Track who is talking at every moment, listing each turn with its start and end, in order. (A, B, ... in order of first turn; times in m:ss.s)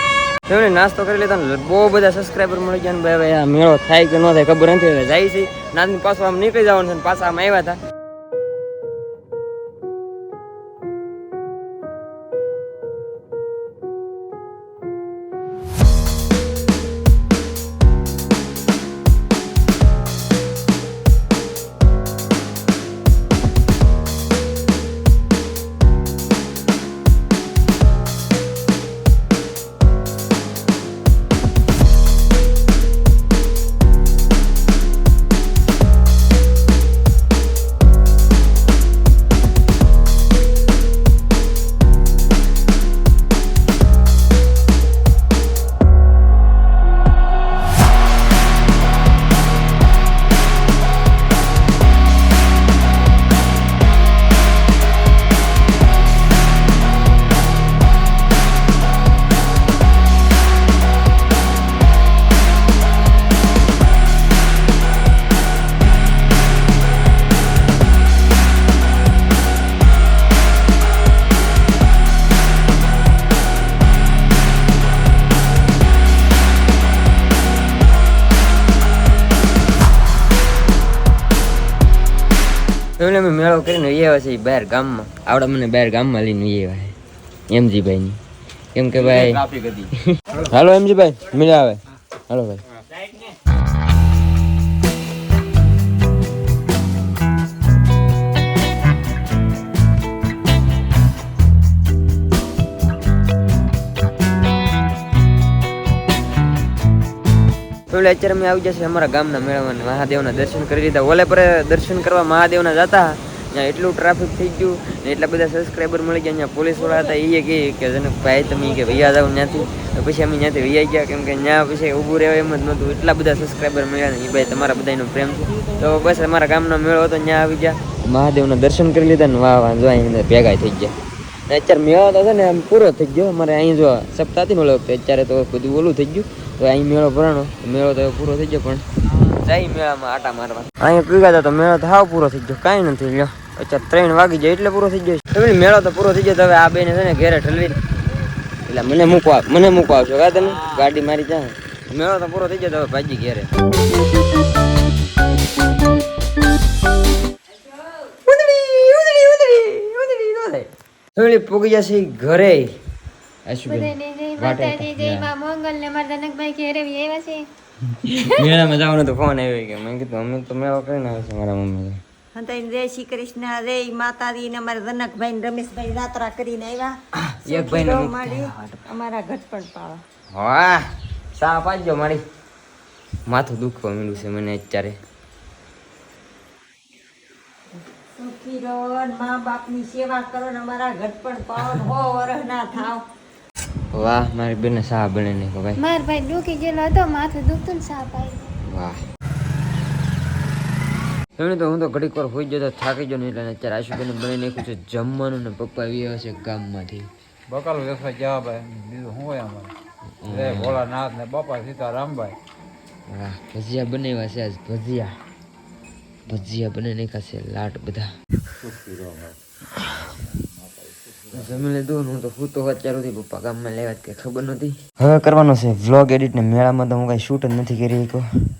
0:00.4-0:07.8 A
1:23.0-1:26.9 A
1:27.5-1:28.2 A
1:28.7-1:32.6 A
1:47.9-2:11.0 A
2:11.5-2:27.8 A
2:28.6-2:33.5 A
2:37.8-2:42.8 A
2:43.4-2:45.3 A
2:43.7-2:47.4 B
2:47.9-2:52.0 A
2:52.3-3:00.0 C
2:57.2-2:58.8 A
3:00.3-3:02.2 A
3:03.2-3:05.0 A
3:08.2-3:13.0 C
3:13.9-3:15.8 A
3:15.8-3:18.5 B
3:18.6-3:19.0 A
3:21.4-3:27.1 A
3:27.5-3:29.7 D
3:30.2-3:30.8 A
3:30.3-3:32.4 D
3:33.1-3:35.1 A
3:36.3-3:38.1 A
3:38.6-3:39.1 A
3:41.2-3:48.3 A